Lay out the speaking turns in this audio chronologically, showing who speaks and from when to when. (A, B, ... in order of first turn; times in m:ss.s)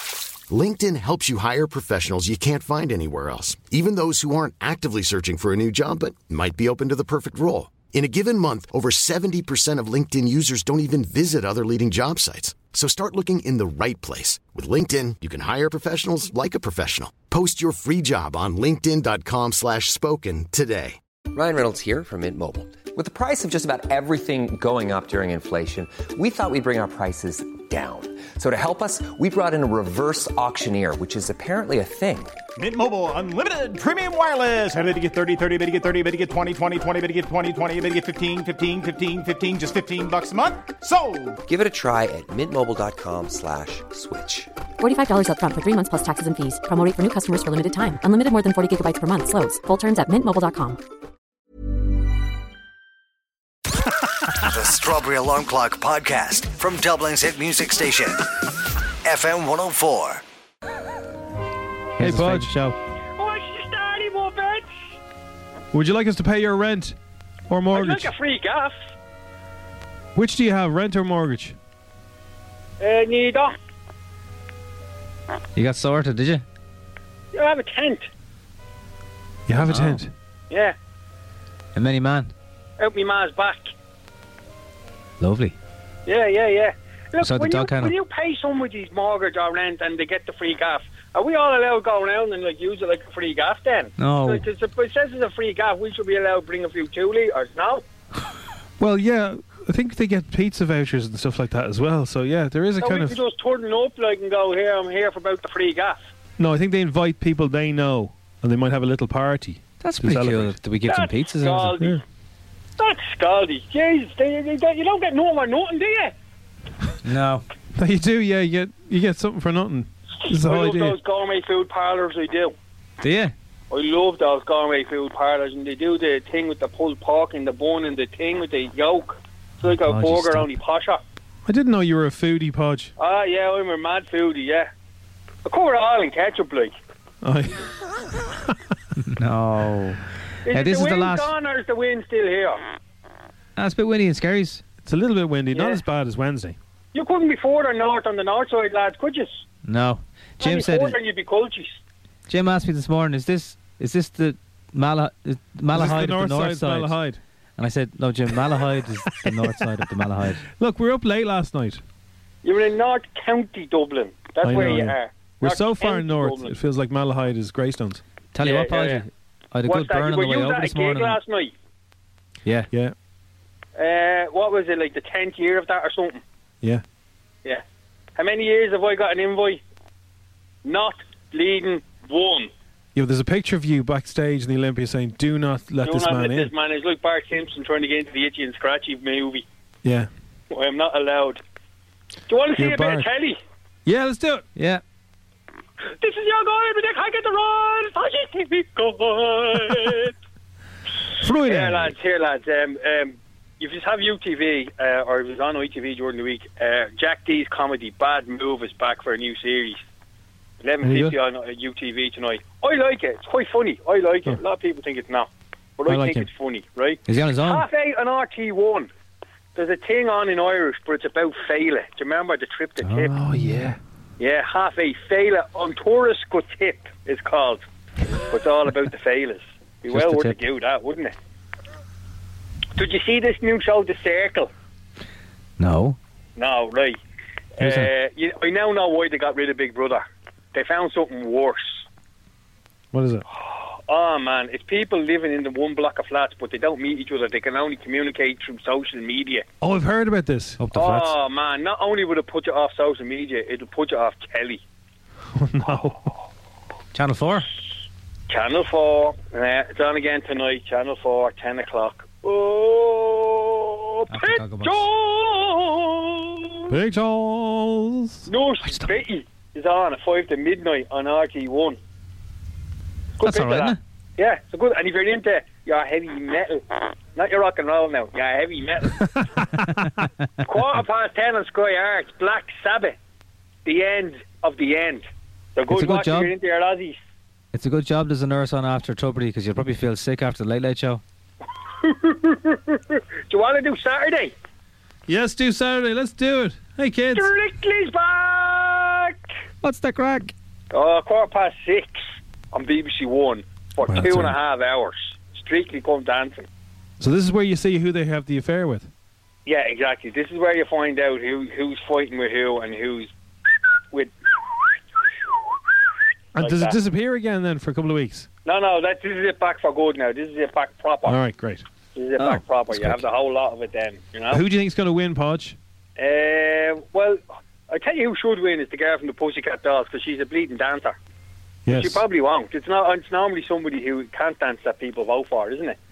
0:00.5-0:21.0 A
0:21.3-0:32.3 B
0:32.6-0:41.4 C
0:41.4-0:44.5 B
0:44.8-0:50.8 D
0:54.4-0:58.2 E
0:59.0-1:00.2 E
1:02.0-1:02.8 F
1:02.0-1:02.5 G
1:03.2-1:04.7 H
1:05.7-1:07.0 G
1:07.5-1:08.1 G
1:07.7-1:08.7 H
1:10.1-1:11.6 G
1:12.8-1:13.5 H
1:15.5-1:16.4 F
1:17.3-1:18.1 H
1:19.4-1:20.1 G
1:19.6-1:20.0 F
1:20.5-1:20.7 H
1:21.7-1:22.3 F
1:22.8-1:23.6 H
1:25.2-1:25.5 F
1:26.0-1:37.8 H
1:27.2-1:27.9 F
1:34.0-1:34.4 F
1:38.8-1:43.2 G
1:42.8-1:46.0 H
1:46.4-1:50.6 G
1:49.8-1:51.8 F
1:50.8-1:52.0 H
1:52.8-1:56.1 H
1:57.0-1:57.4 F
1:57.7-2:01.0 G
2:00.2-2:02.5 H
2:03.0-2:03.3 F
2:03.7-2:11.0 H
2:09.7-2:10.5 F
2:11.4-2:12.9 G
2:13.0-2:14.7 H
2:15.4-2:16.7 H
2:17.2-2:17.7 G
2:19.1-2:21.3 F
2:20.4-2:22.6 H
2:23.6-2:24.6 F
2:24.8-2:26.6 G
2:25.5-2:25.8 H
2:26.9-2:29.4 H
2:29.6-2:31.0 F
2:30.4-2:31.8 H
2:32.3-2:37.0 F
2:35.7-2:37.2 G
2:37.6-2:40.4 F
2:40.6-2:41.8 G
2:42.4-2:46.5 H
2:44.4-2:48.0 G
2:48.3-2:51.2 F
2:48.4-2:49.0 H
2:49.6-2:51.5 H
2:52.4-2:52.7 F
2:53.8-2:56.2 H
2:58.2-2:59.6 H
3:00.6-3:02.5 H
3:02.9-3:06.5 G
3:05.8-3:09.4 H
3:09.8-3:10.1 G
3:10.5-3:11.4 H
3:12.3-3:13.4 H
3:12.6-3:13.1 G
3:13.8-3:14.4 G
3:14.6-3:14.8 F
3:15.9-3:20.1 H
3:21.2-3:21.9 G
3:21.4-3:29.8 H
3:30.6-3:38.9 H
3:30.8-3:31.1 G
3:35.8-3:36.3 G
3:37.0-3:37.6 F
3:39.5-3:43.1 H
3:42.8-3:43.1 F
3:43.1-3:43.8 G
3:44.2-3:47.6 H
3:48.3-3:51.1 H
3:49.9-3:50.4 F
3:52.8-3:54.5 H
3:55.6-3:56.0 F
3:56.4-3:57.0 H
3:57.6-3:57.9 F
3:57.6-4:00.0 H
4:00.5-4:01.8 H
4:02.9-4:03.2 G
4:03.3-4:09.4 H
4:09.6-4:10.6 G
4:10.6-4:11.1 F
4:10.7-4:14.6 H
4:15.4-4:16.1 G
4:16.9-4:17.5 F
4:18.3-4:26.7 H
4:24.1-4:24.8 F
4:26.7-4:28.3 G
4:28.3-4:31.8 H
4:33.2-4:39.1 H
4:33.2-4:33.8 F
4:39.2-4:39.6 G
4:40.4-4:43.0 H
4:43.6-4:47.0 H
4:45.7-4:46.3 F
4:47.5-4:51.0 F
4:51.8-4:54.3 H
4:55.1-4:57.3 G
4:57.1-4:59.2 H
4:59.6-5:00.3 F
5:00.7-5:02.0 H
5:02.5-5:06.5 H
5:03.8-5:04.3 G
5:07.0-5:08.9 G
5:09.4-5:13.1 H
5:13.9-5:14.8 H
5:16.3-5:18.3 G
5:16.4-5:16.8 H
5:18.4-5:21.2 H
5:21.0-5:21.6 G
5:21.9-5:24.4 H
5:24.3-5:25.6 G
5:26.0-5:31.0 H
5:31.6-5:32.0 G
5:31.7-5:35.8 H